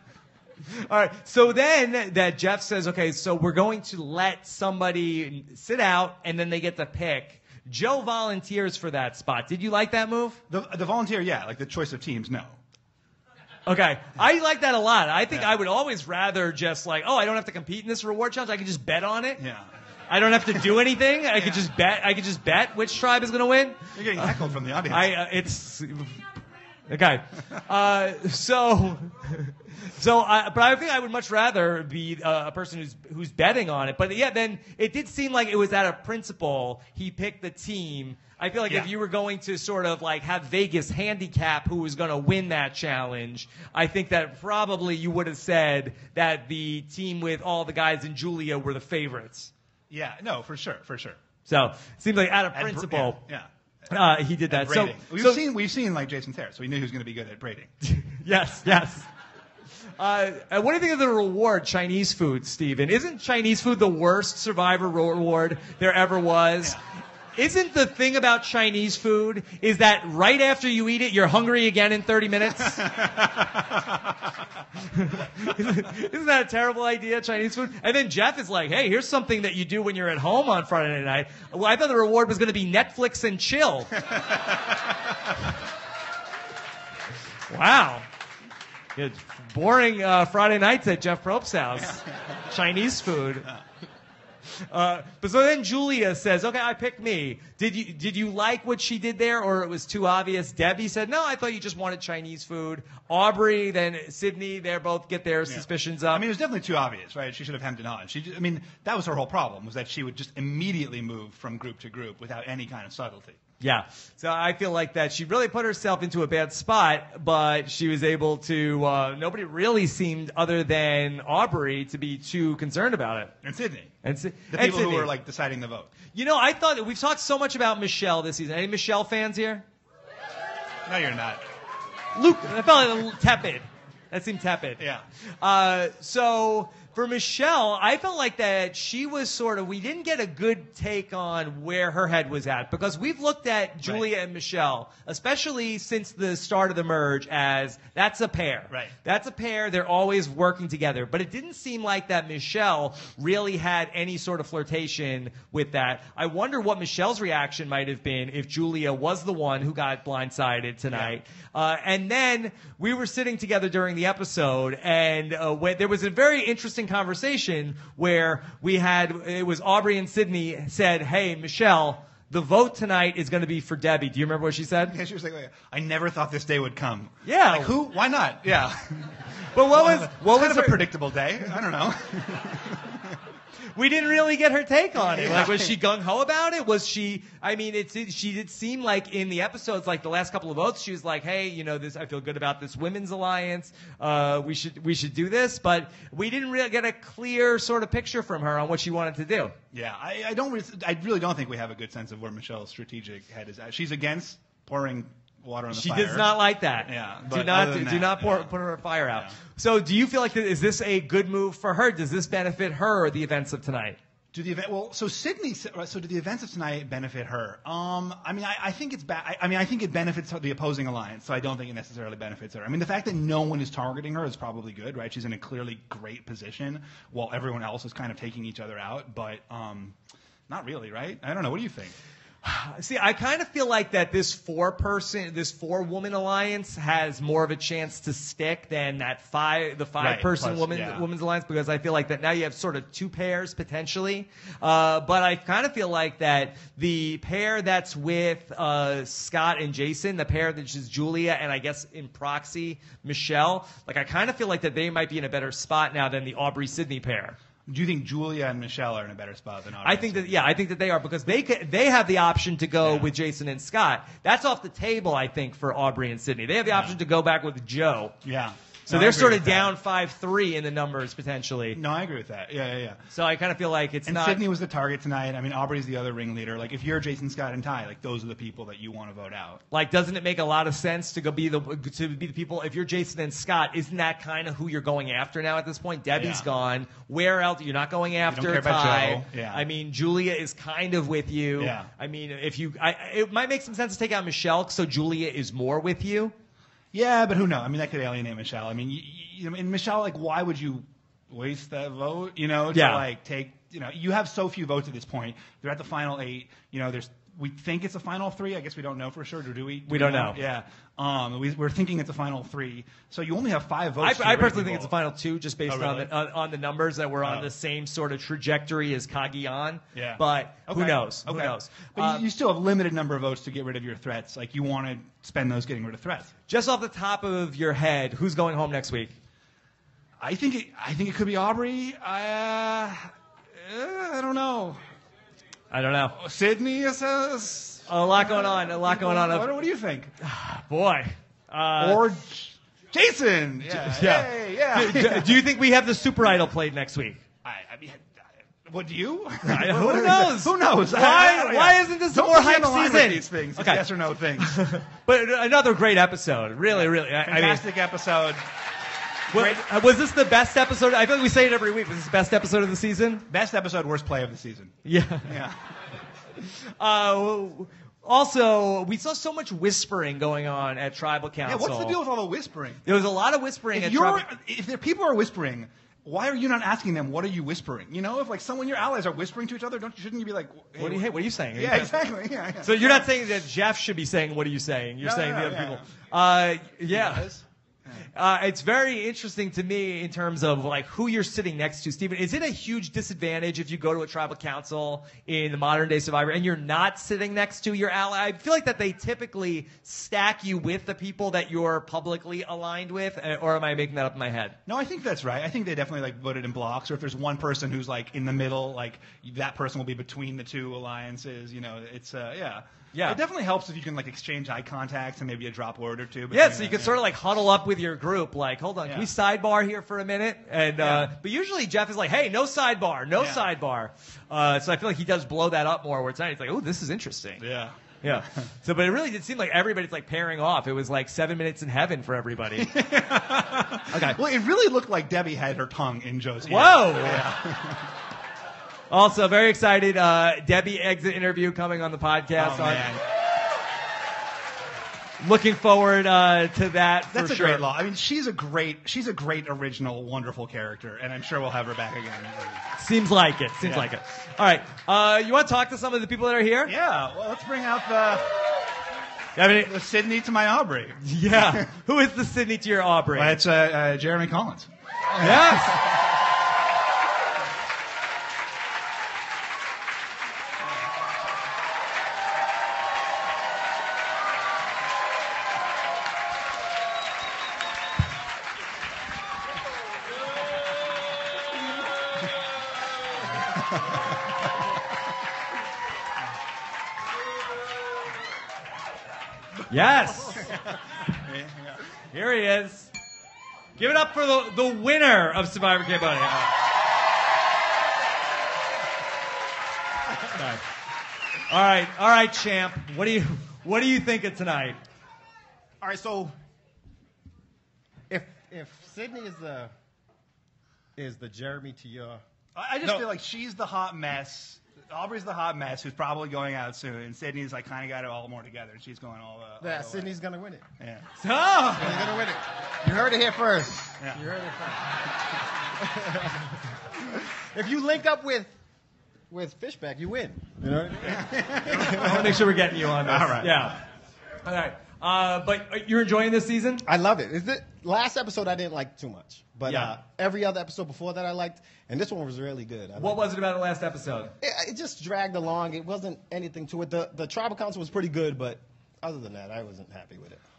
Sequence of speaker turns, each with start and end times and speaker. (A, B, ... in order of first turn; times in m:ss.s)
0:00.7-0:10.4 A
0:10.5-0:12.6 B
0:13.7-0:19.4 A
0:19.4-0:19.7 B
0:20.1-0:26.2 A
0:21.4-0:21.7 B
0:24.0-0:25.2 B
0:26.9-0:49.5 A
0:49.9-0:51.2 B
0:51.5-0:53.2 A
0:52.5-0:53.5 B
0:53.9-0:55.4 A
0:54.5-0:57.7 B
0:57.8-0:59.1 A
1:00.0-1:06.8 A
1:07.4-1:12.9 A
1:12.6-1:14.3 B
1:15.0-1:24.0 A
1:24.1-1:25.1 B
1:27.5-1:28.1 A
1:29.0-1:33.5 A
1:31.8-1:32.2 B
1:34.6-1:46.2 A
1:45.4-1:53.4 B
1:53.6-2:03.3 A
2:03.4-2:03.9 B
2:04.0-2:05.1 A
2:04.5-2:05.9 B
2:06.1-2:09.6 A
2:10.9-2:11.4 B
2:12.2-2:14.8 A
2:14.8-2:15.0 B
2:15.4-2:55.0 A
2:23.8-2:24.1 B
2:40.9-2:41.2 B
2:54.9-3:03.2 B
2:57.2-2:57.8 A
2:59.5-3:00.9 A
3:03.8-3:19.6 A
3:05.0-3:05.8 B
3:19.7-3:28.5 B
3:25.7-3:34.0 A
3:34.3-3:50.0 B
3:50.5-3:52.0 B
3:52.4-4:17.4 A
4:00.0-4:01.0 B
4:17.7-4:20.5 B
4:19.8-4:28.2 A
4:22.8-4:23.1 B
4:26.7-4:27.0 B
4:28.2-4:29.8 B
4:28.9-4:31.8 A
4:31.7-4:33.0 B
4:33.1-4:34.4 A
4:34.1-4:39.6 B
4:39.7-4:56.3 A
4:46.2-4:46.5 B
4:48.3-4:49.6 B
4:51.6-4:51.9 B
4:56.9-5:14.9 B
5:02.7-5:03.0 A
5:09.9-5:10.4 A
5:14.0-5:22.2 A
5:15.7-5:16.1 B
5:17.2-5:17.5 B
5:19.9-5:26.3 B
5:26.5-5:29.1 A
5:30.2-5:34.8 B
5:35.7-5:36.1 A
5:36.1-5:40.1 B
5:37.9-5:39.5 A
5:40.2-5:42.0 A
5:41.8-5:45.4 B
5:43.7-5:47.2 A
5:47.4-5:54.6 B
5:49.4-5:53.9 A
5:54.4-5:57.6 A
5:56.7-5:58.4 B
5:59.3-5:59.6 B
5:59.3-6:03.2 A
6:03.3-6:05.6 B
6:04.8-6:05.3 A
6:06.8-6:12.0 A
6:11.4-6:12.8 B
6:12.9-6:14.3 A
6:13.7-6:23.1 B
6:20.8-6:21.9 A
6:22.6-6:27.3 A
6:25.0-6:25.8 B
6:26.9-6:27.9 B
6:28.2-6:44.6 A
6:44.7-6:57.0 B
6:52.9-6:53.2 A
6:56.3-7:07.4 A
7:00.8-7:01.1 B
7:03.2-7:03.4 B
7:07.4-7:08.5 B
7:08.0-7:12.7 A
7:12.6-7:17.9 B
7:13.9-7:14.2 A
7:16.4-7:17.2 A
7:18.9-7:22.9 A
7:22.4-7:23.0 B
7:25.2-7:27.6 A
7:27.1-7:32.6 B
7:32.8-7:36.7 A
7:33.6-7:33.9 B
7:36.7-7:38.3 B
7:39.4-7:39.7 A
7:39.6-7:41.7 B
7:41.0-7:43.4 A
7:43.1-7:46.0 B
7:45.2-7:45.8 A
8:03.4-8:04.2 B
8:09.7-8:10.5 A
8:10.3-8:11.8 B
8:12.1-8:12.9 A
8:13.8-8:16.5 A
8:20.4-8:20.6 A
8:21.5-8:24.8 A
8:25.8-8:26.4 C
8:28.1-8:29.7 C
8:31.0-8:32.2 C
8:32.6-8:40.1 B
8:39.6-8:40.6 C
8:40.8-8:42.1 B
8:41.2-8:42.0 A
8:41.8-8:44.9 C
8:45.8-8:46.4 C
8:47.1-8:48.5 C
8:49.3-8:52.0 C
8:51.0-8:53.8 B
8:51.9-8:53.8 A
8:54.4-8:56.8 A
8:56.9-9:03.2 C
8:59.7-8:59.9 A
9:03.0-9:04.3 A
9:04.4-9:10.4 C